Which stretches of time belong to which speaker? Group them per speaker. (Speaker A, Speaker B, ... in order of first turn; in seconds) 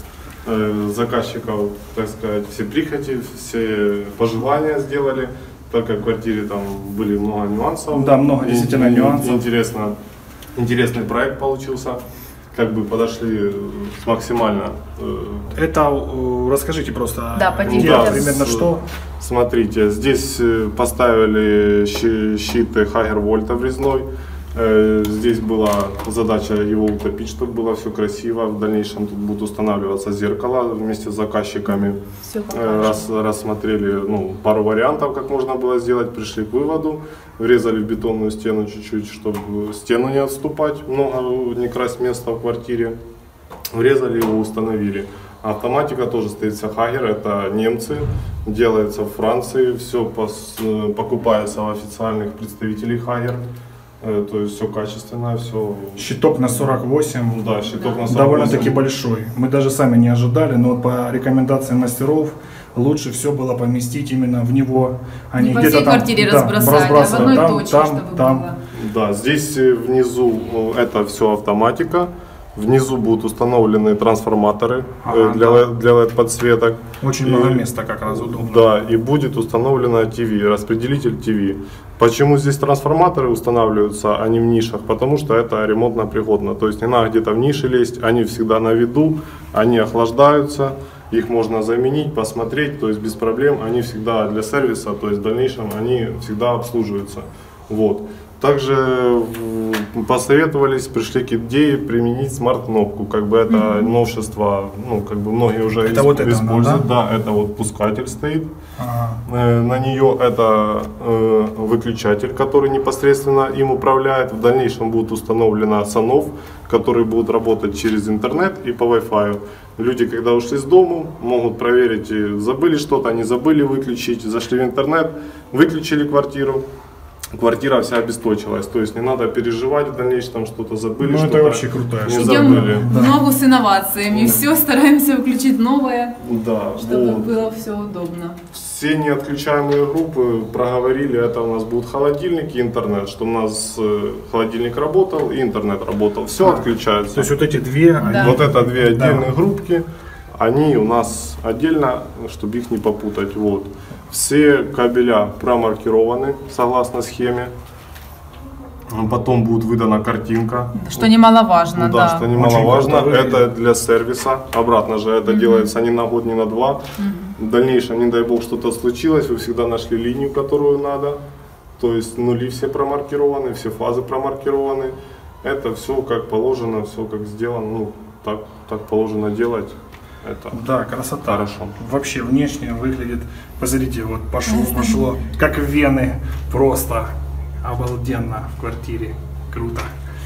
Speaker A: 0.4-9.9, 10.5-12.0, 12.5-15.5, 17.6-43.0, 43.7-53.4, 54.0-56.1, 57.3-58.8, 67.0-67.4, 68.7-108.5, 109.2-126.6, 127.3-132.9, 134.1-134.4, 136.2-137.3, 138.5-147.4, 148.0-157.5, 158.9-161.1, 161.7-166.8, 167.4-171.2, 171.8-180.6, 181.2-181.8
Speaker B: 7.9-9.4, 15.5-18.8, 56.0-57.4, 58.1-68.5, 75.0-75.7, 77.0-78.7, 105.8-106.8, 108.8-109.2, 131.0-133.2, 146.4-149.3, 162.3-163.4, 180.5-189.9
Speaker C: 17.3-18.3, 31.7-33.0, 57.7-58.0, 65.3-68.6, 103.5-103.9, 132.1-136.2, 136.8-138.4, 148.0-148.4, 160.7-162.3, 165.2-165.7, 167.0-167.3, 184.4-185.0